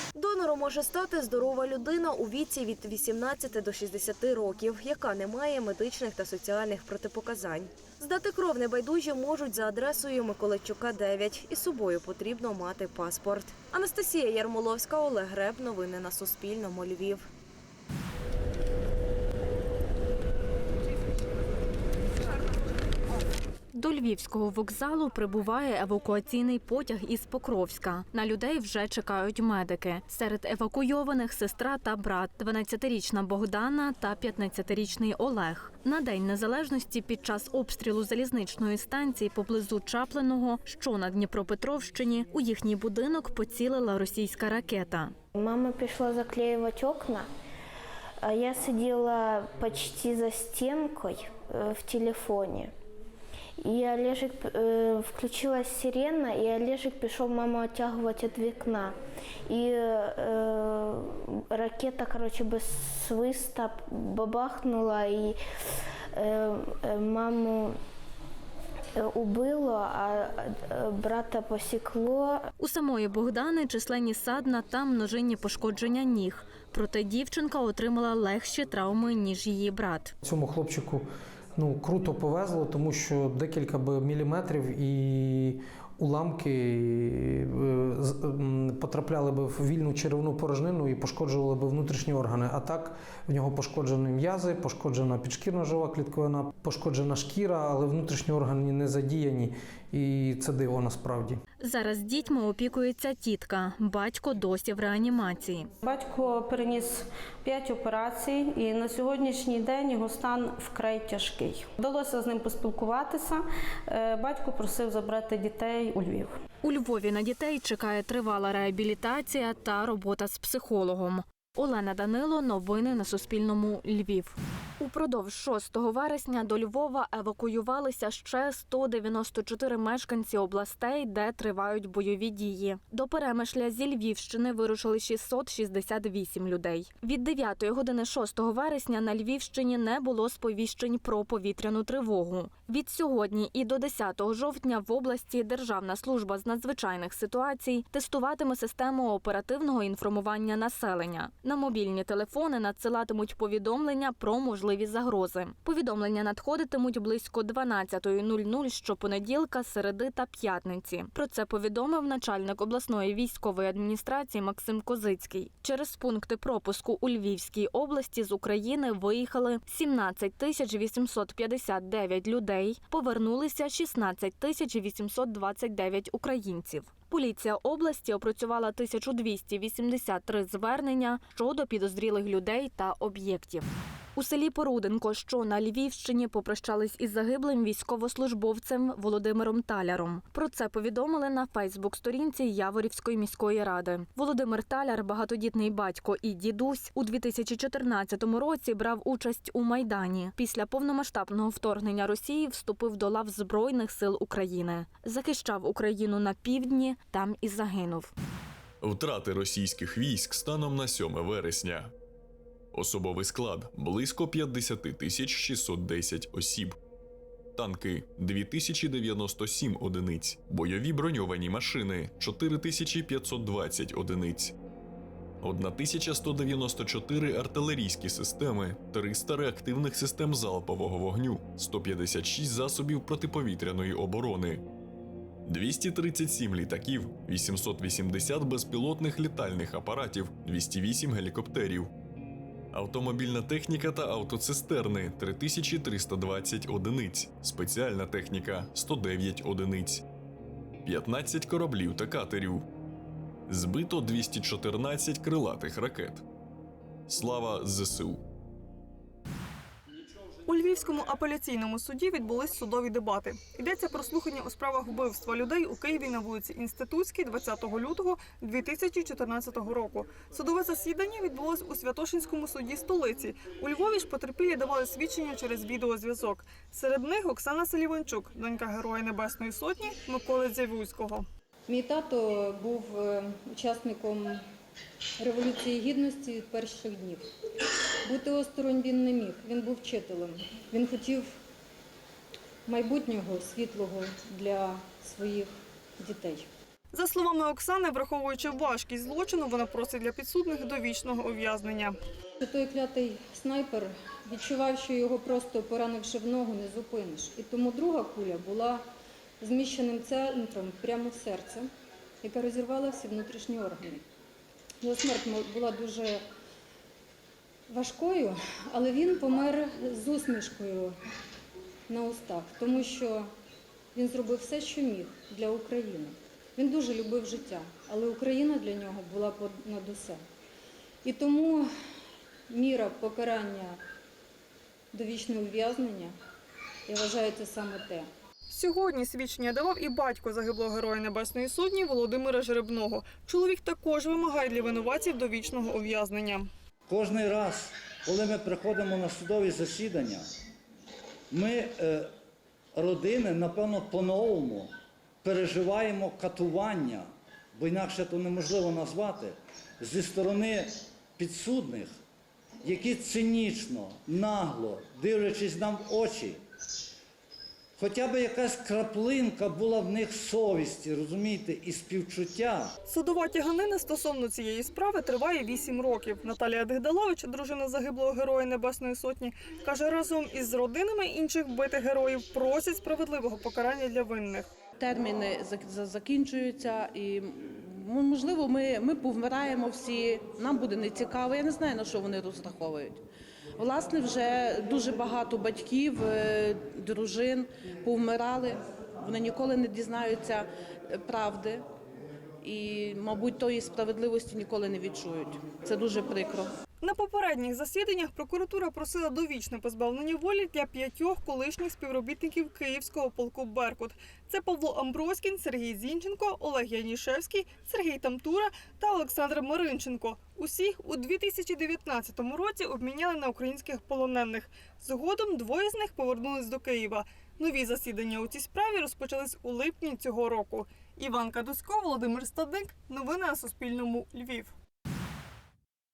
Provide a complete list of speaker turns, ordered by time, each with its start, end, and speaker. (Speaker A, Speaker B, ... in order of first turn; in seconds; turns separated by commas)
Speaker A: 0.3-17.2, Speaker B: 23.7-45.1, Speaker C: 45.4-47.3, Speaker C: 48.2-52.7, Speaker C: 53.6-59.0, Speaker C: 59.5-65.4, Speaker C: 66.2-67.8, Speaker C: 69.0-72.5, Speaker B: 72.6-80.1, Speaker D: 80.2-101.4, Speaker B: 101.6-105.7, Speaker E: 105.8-116.4, Speaker B: 116.6-208.1, Speaker F: 208.8-211.9, Speaker F: 212.7-216.8, Speaker F: 217.6-224.5, Speaker F: 225.4-234.6, Speaker F: 235.5-241.9, Speaker F: 242.7-250.0, Speaker F: 250.8-252.7, Speaker F: 253.5-256.2, Speaker F: 257.1-258.2, Speaker G: 260.5-281.3, Speaker H: 281.7-284.4, Speaker H: 285.2-287.2, Speaker H: 288.1-291.3, Speaker H: 292.7-296.5, Speaker G: 296.9-302.0, Speaker H: 302.4-308.8, Speaker H: 309.4-311.7, Speaker H: 312.2-314.0, Speaker H: 314.8-316.2, Speaker H: 317.7-320.9, Speaker H: 321.9-323.3, Speaker H: 323.9-330.2, Speaker H: 331.0-331.7, Speaker H: 332.5-333.8, Speaker H: 334.9-336.1, Speaker H: 336.9-338.1, Speaker G: 338.5-346.5, Speaker I: 346.9-350.2, Speaker I: 351.3-352.1, Speaker I: 352.8-354.7, Speaker I: 355.2-361.9, Speaker I: 362.6-366.4, Speaker I: 367.8-372.7, Speaker G: 372.9-384.5, Speaker J: 384.8-393.0, Speaker J: 393.6-401.6, Speaker J: 402.4-406.5, Speaker G: 406.8-434.5